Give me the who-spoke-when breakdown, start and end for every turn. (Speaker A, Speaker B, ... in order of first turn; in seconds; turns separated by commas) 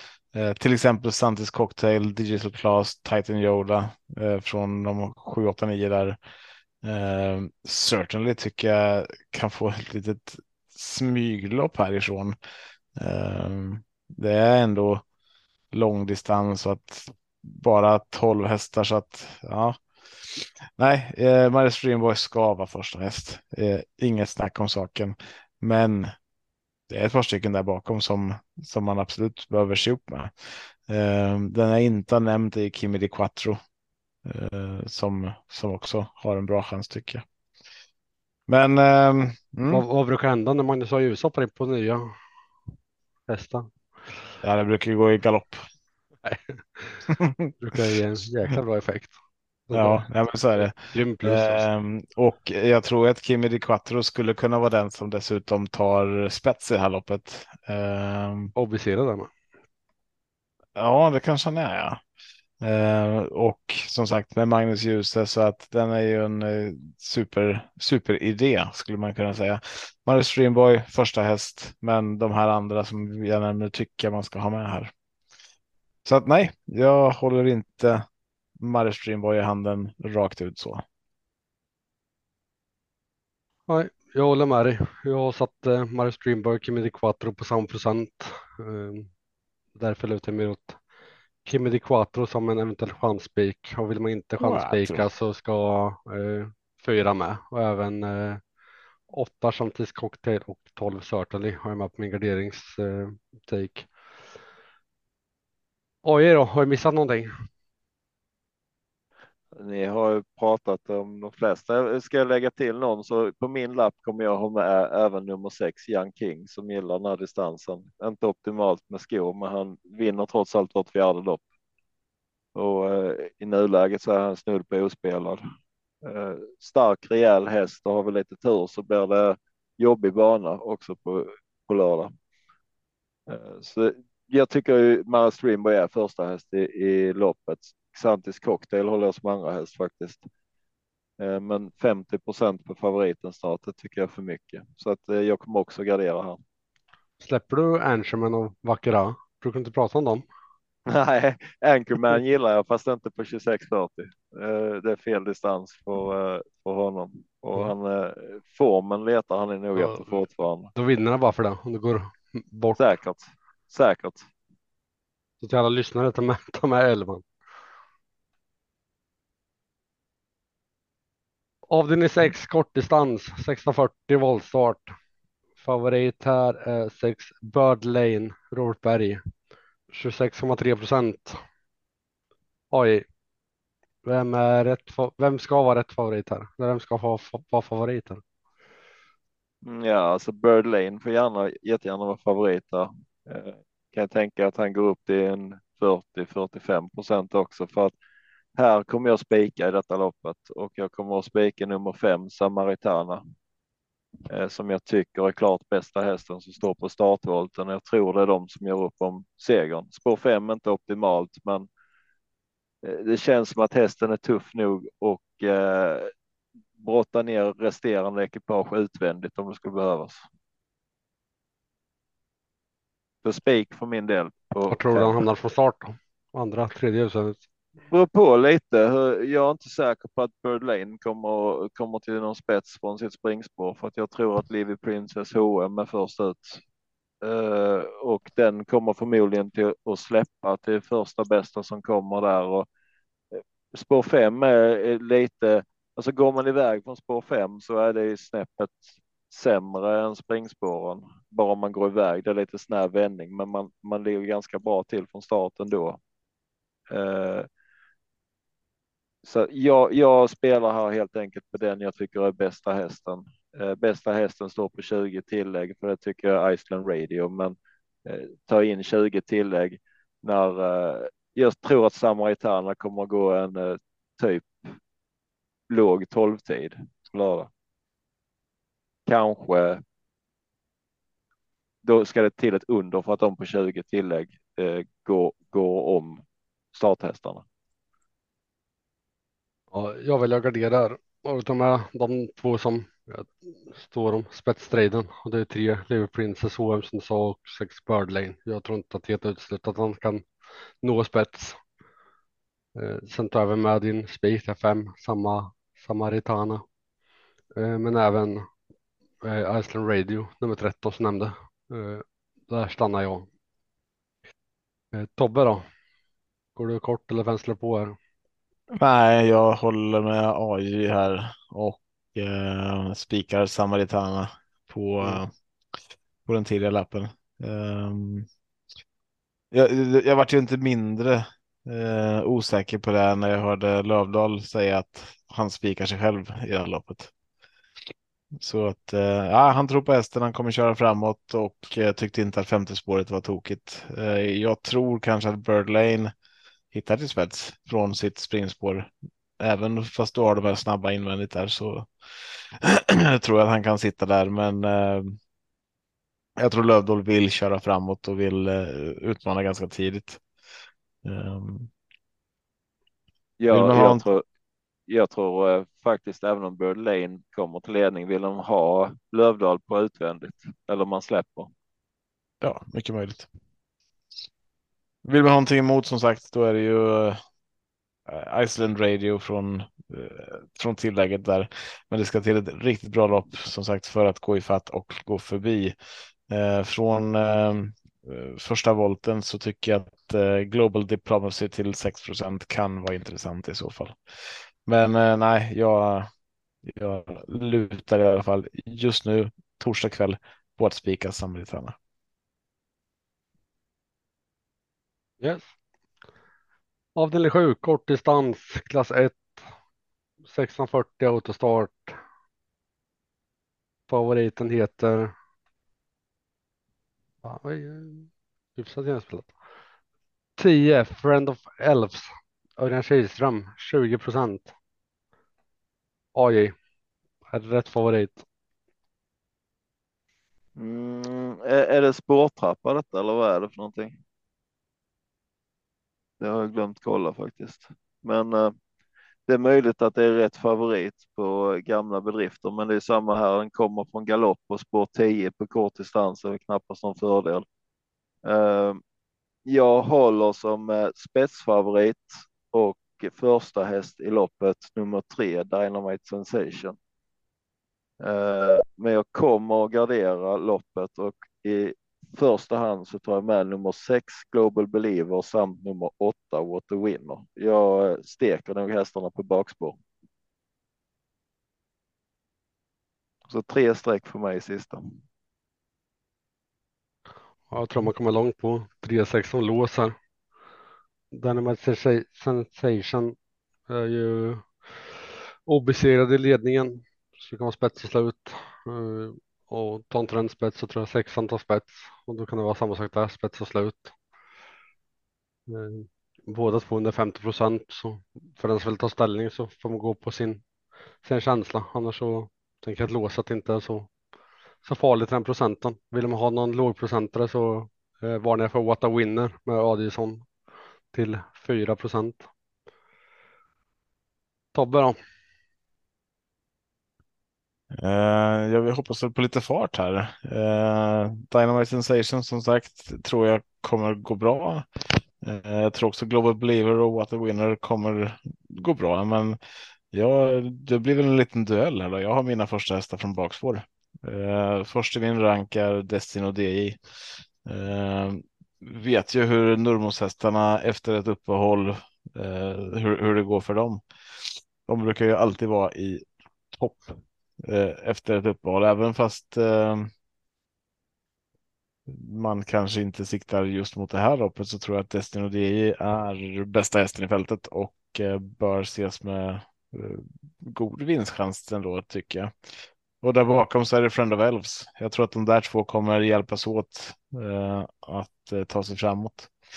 Speaker A: 0.3-6.2, Speaker A: 6.8-12.3, Speaker A: 12.9-15.0, Speaker A: 15.7-26.1, Speaker A: 26.9-30.3, Speaker A: 30.9-33.6, Speaker A: 34.2-37.2, Speaker A: 38.5-39.8, Speaker B: 39.7-42.1, Speaker B: 43.3-43.7, Speaker A: 44.4-45.6, Speaker B: 46.2-47.0, Speaker A: 47.2-47.8, Speaker B: 47.6-49.1, Speaker B: 49.7-50.0, Speaker A: 49.7-58.5, Speaker B: 50.7-51.7, Speaker B: 58.5-59.3, Speaker A: 60.7-62.0, Speaker A: 62.6-74.9, Speaker A: 76.0-78.0, Speaker A: 78.6-80.8, Speaker B: 83.7-89.1, Speaker B: 89.8-90.8, Speaker B: 91.4-98.4, Speaker A: 94.4-95.1, Speaker B: 99.1-103.9, Speaker B: 106.0-107.3, Speaker C: 109.5-121.4, Speaker C: 122.5-125.4, Speaker C: 126.0-132.1, Speaker C: 133.3-140.2, Speaker C: 141.2-146.4, Speaker B: 147.2-150.2, Speaker C: 150.9-160.7, Speaker B: 159.8-160.0, Speaker B: 160.7-162.8, Speaker C: 162.8-164.3, Speaker B: 165.4-167.2, Speaker B: 171.7-174.9, Speaker B: 175.6-179.2, Speaker B: 179.9-181.4, Speaker B: 182.7-183.1, Speaker B: 184.0-188.2, Speaker C: 189.6-197.9, Speaker C: 198.6-203.2, Speaker C: 204.3-211.7, Speaker C: 212.8-216.1, Speaker C: 216.8-220.2, Speaker C: 223.2-225.2, Speaker B: 224.7-227.4, Speaker C: 227.9-236.6, Speaker C: 237.2-242.7, Speaker C: 243.3-256.0, Speaker C: 256.9-257.5, Speaker C: 259.2-274.7, Speaker C: 275.7-277.5, Speaker C: 279.1-279.8, Speaker C: 281.8-286.2, Speaker C: 286.7-287.4, Speaker B: 289.7-300.3, Speaker B: 300.8-301.6, Speaker B: 302.8-306.6, Speaker B: 307.6-308.5, Speaker B: 309.2-313.3, Speaker B: 314.9-315.6, Speaker B: 316.6-317.9, Speaker A: 318.7-325.3, Speaker A: 326.2-328.3, Speaker A: 329.5-337.1, Speaker A: 338.4-346.1, Speaker A: 346.7-351.9, Speaker A: 352.6-355.2, Speaker A: 356.4-360.2, Speaker A: 361.0-361.7, Speaker C: 363.4-364.2, Speaker A: 363.5-364.0, Speaker C: 364.9-371.5, Speaker A: 372.4-373.3, Speaker A: 375.0-377.2, Speaker A: 378.1-385.7, Speaker A: 386.3-394.0, Speaker A: 394.6-396.1, Speaker A: 396.6-401.8, Speaker B: 405.2-405.5, Speaker B: 406.9-409.4, Speaker B: 410.3-412.0, Speaker B: 413.9-415.1, Speaker B: 417.2-419.3, Speaker B: 420.4-424.5, Speaker B: 426.1-426.5, Speaker B: 427.3-428.2, Speaker C: 430.6-434.0, Speaker C: 436.2-438.5, Speaker C: 439.3-447.4, Speaker C: 448.2-448.8, Speaker C: 449.4-456.8, Speaker C: 458.0-469.8, Speaker C: 473.3-474.9, Speaker B: 477.5-479.9, Speaker B: 481.1-483.1, Speaker B: 483.7-484.5, Speaker B: 485.5-493.9, Speaker B: 495.5-500.4, Speaker B: 501.0-503.9, Speaker B: 504.6-510.3, Speaker B: 510.9-512.3, Speaker B: 514.5-515.0, Speaker A: 517.7-524.6, Speaker A: 525.2-529.4, Speaker A: 529.9-536.8, Speaker A: 537.4-549.9, Speaker A: 551.9-569.3